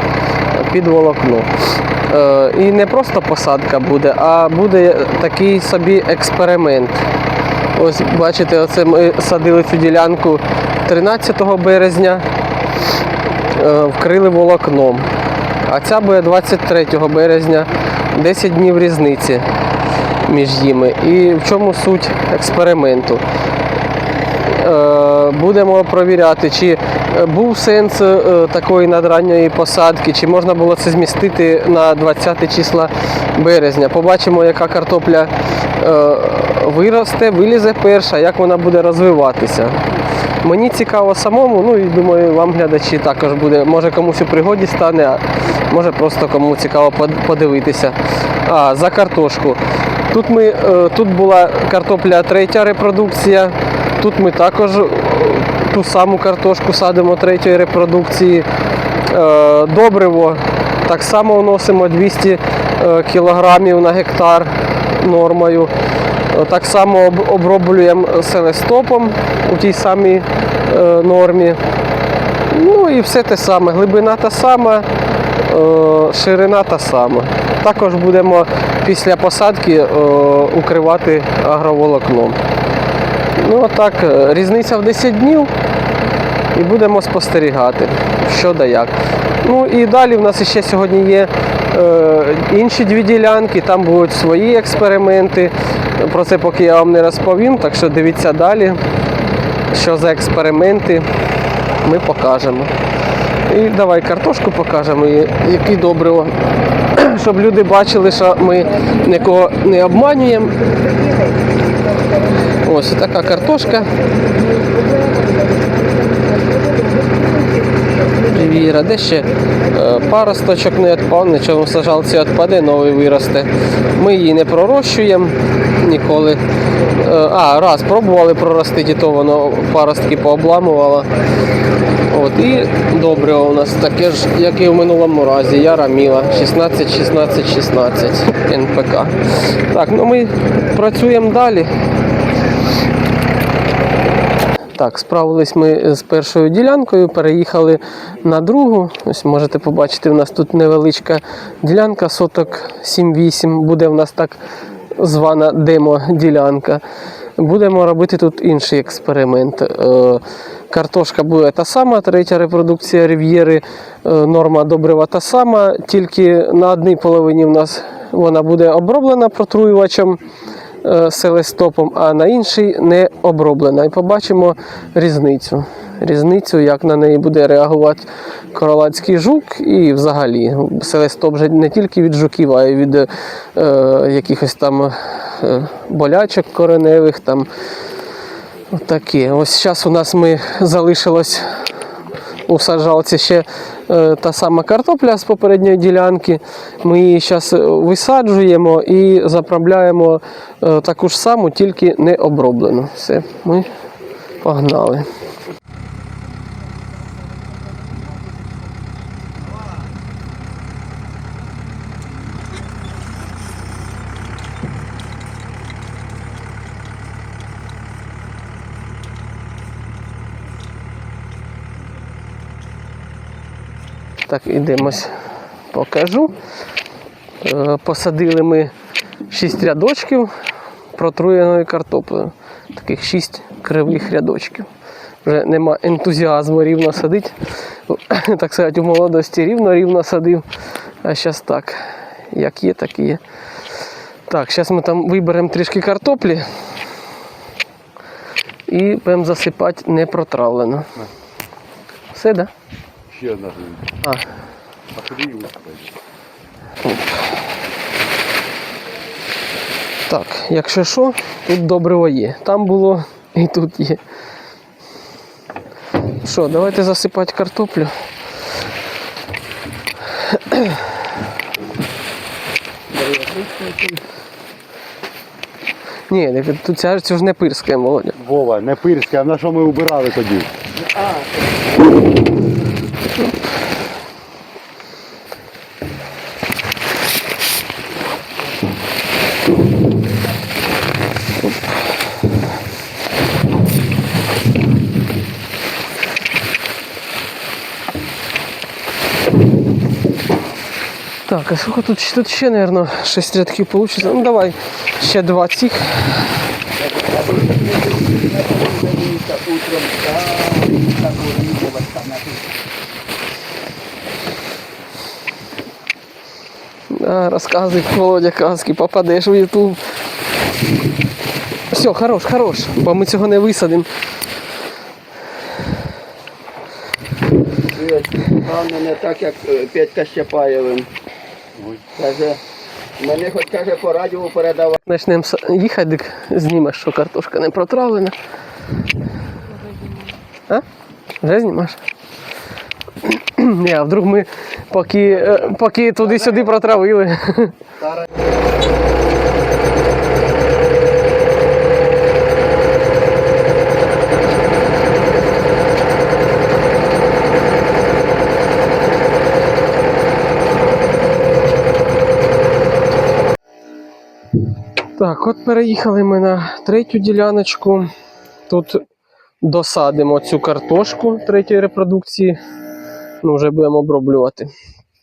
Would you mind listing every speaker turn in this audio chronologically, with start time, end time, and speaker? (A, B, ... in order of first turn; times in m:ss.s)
0:00.5-0:07.1 A
0:07.7-0:12.3 A
0:13.4-0:15.1 A
0:15.6-0:19.5 A
0:20.2-0:23.2 A
0:24.4-0:58.5 A
0:59.0-1:11.6 A
1:12.4-1:22.4 A
1:23.4-1:25.5 A
1:26.5-1:38.8 A
1:39.7-1:41.1 A
1:41.8-1:42.8 A
1:43.4-1:51.3 A
1:52.2-1:54.3 A
1:58.1-2:11.1 A
2:12.1-2:21.8 A
2:24.8-2:50.2 A
2:50.8-3:07.5 A
3:08.7-3:11.7 A
3:12.4-3:23.7 A
3:24.4-3:25.1 A
3:44.2-3:46.4 A
3:47.4-3:48.7 A
3:49.3-3:50.4 A
3:50.9-3:54.7 A
3:55.2-4:00.5 A
4:01.0-4:03.2 A
4:04.3-4:06.6 A
4:08.7-4:10.9 A
4:12.1-4:12.5 A
4:13.1-4:14.0 B
4:14.0-4:14.3 A
4:14.9-4:15.9 B
4:16.8-4:17.4 A
4:20.1-4:24.0 A
4:26.1-4:28.0 A
4:30.2-4:31.0 A
4:32.9-4:34.0 C
4:36.1-4:38.2 A
4:38.2-4:40.5 B
4:40.8-4:41.5 C
5:01.3-5:06.2 A
5:06.8-5:12.5 C
5:16.9-5:19.8 A
5:21.7-5:23.9 A
5:27.6-5:30.9 C
5:31.6-5:31.8 B
5:32.0-5:32.4 C
5:33.0-5:34.8 C
5:34.9-5:38.2 A
5:41.2-5:41.8 A
5:43.0-5:47.6 A
6:04.9-6:07.9 A
6:08.5-6:08.8 A
6:09.4-6:12.4 A
6:13.2-6:14.5 A